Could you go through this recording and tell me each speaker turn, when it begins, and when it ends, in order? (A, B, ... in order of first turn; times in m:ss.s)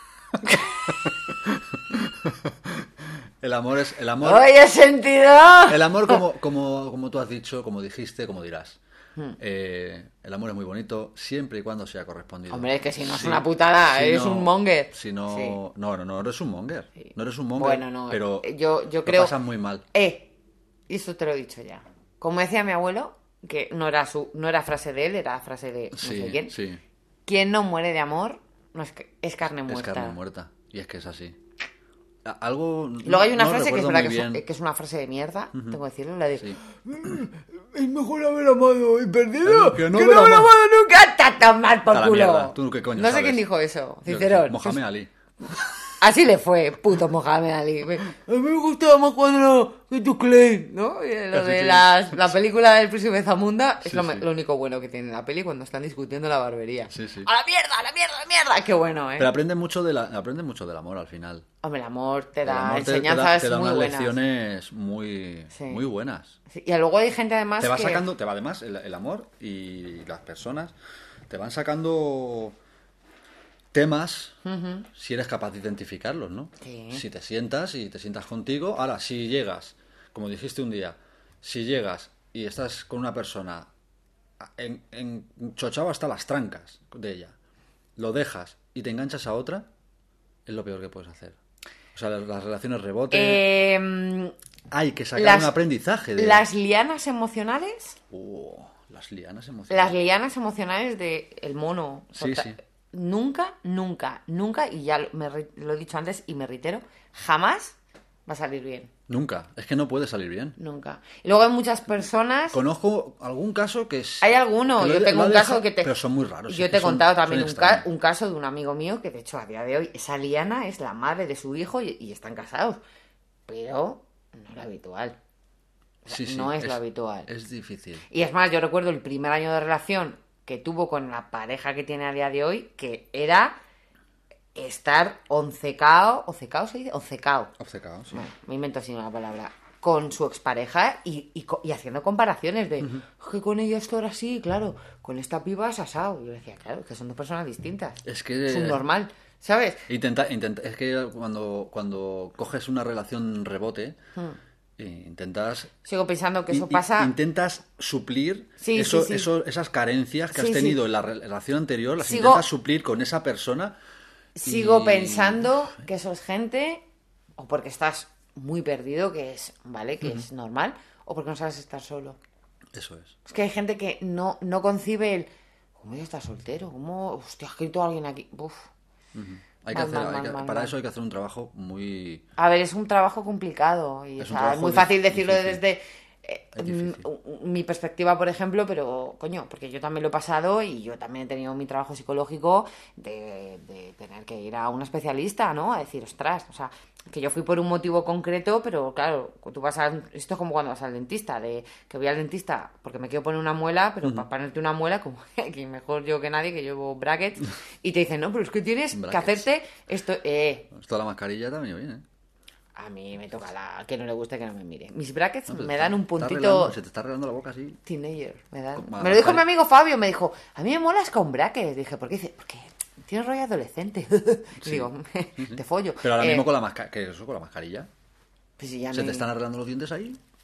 0:00.3-0:04.4 A
0:04.2-0:06.2 B
0:05.7-0:08.8 A
0:09.4-0:18.5 A
0:12.5-0:15.6 B
0:17.0-0:19.3 B
0:19.0-0:19.8 A
0:19.9-0:20.3 B
0:20.9-0:26.6 B
0:25.9-0:26.8 A
0:27.3-0:30.2 B
0:29.6-0:31.4 A
0:32.2-0:34.4 A
0:33.0-0:44.8 B
0:35.5-0:35.8 A
0:36.4-0:37.1 A
0:39.4-0:40.5 A
0:41.9-0:43.4 A
0:44.1-0:45.9 A
0:46.0-0:59.3 B
0:51.3-0:52.4 A
0:53.8-0:54.2 A
0:56.9-0:57.3 A
0:59.2-1:01.5 A
1:01.6-1:04.2 B
1:02.4-1:06.4 A
1:05.5-1:05.8 B
1:06.5-1:08.0 B
1:07.6-1:10.7 A
1:11.3-1:12.6 A
1:13.7-1:14.4 A
1:14.4-1:14.9 B
1:14.9-1:23.7 A
1:16.6-1:17.0 B
1:24.4-1:27.4 A
1:28.0-1:29.7 A
1:30.5-1:31.4 A
1:32.0-1:33.4 A
1:33.1-1:34.3 B
1:34.7-1:36.5 A
1:35.2-1:35.6 B
1:36.2-1:38.0 B
1:38.1-1:40.0 A
1:39.7-1:47.8 B
1:42.2-1:42.6 A
1:48.3-1:48.9 B
1:49.1-1:50.6 A
1:50.6-1:52.6 B
1:52.5-1:57.8 A
1:54.2-1:55.9 B
1:56.5-2:02.8 B
2:03.5-2:05.2 B
2:06.0-2:07.3 B
2:06.1-2:08.0 A
2:08.1-2:13.6 B
2:14.6-2:17.6 B
2:17.6-2:18.2 A
2:18.1-2:29.9 B
2:28.0-2:28.8 A
2:29.9-2:34.0 A
2:34.8-2:35.7 A
2:35.8-2:37.1 B
2:36.5-2:43.8 A
2:38.6-2:39.3 B
2:40.3-2:40.8 B
2:42.0-2:42.4 B
2:44.4-2:46.8 B
2:44.4-2:45.7 A
2:47.4-2:52.2 B
2:52.7-2:53.2 A
2:53.3-2:58.7 B
2:59.2-3:02.2 A
2:59.7-3:00.7 B
3:02.4-3:30.7 B
3:04.2-3:05.6 A
3:06.6-3:07.0 A
3:28.9-3:29.4 A
3:30.7-3:32.0 A
3:32.8-3:36.8 B
3:35.5-3:37.8 A
3:37.9-3:46.5 B
3:38.7-3:39.5 A
3:44.6-3:47.9 A
3:48.6-3:49.3 B
3:48.9-3:50.2 A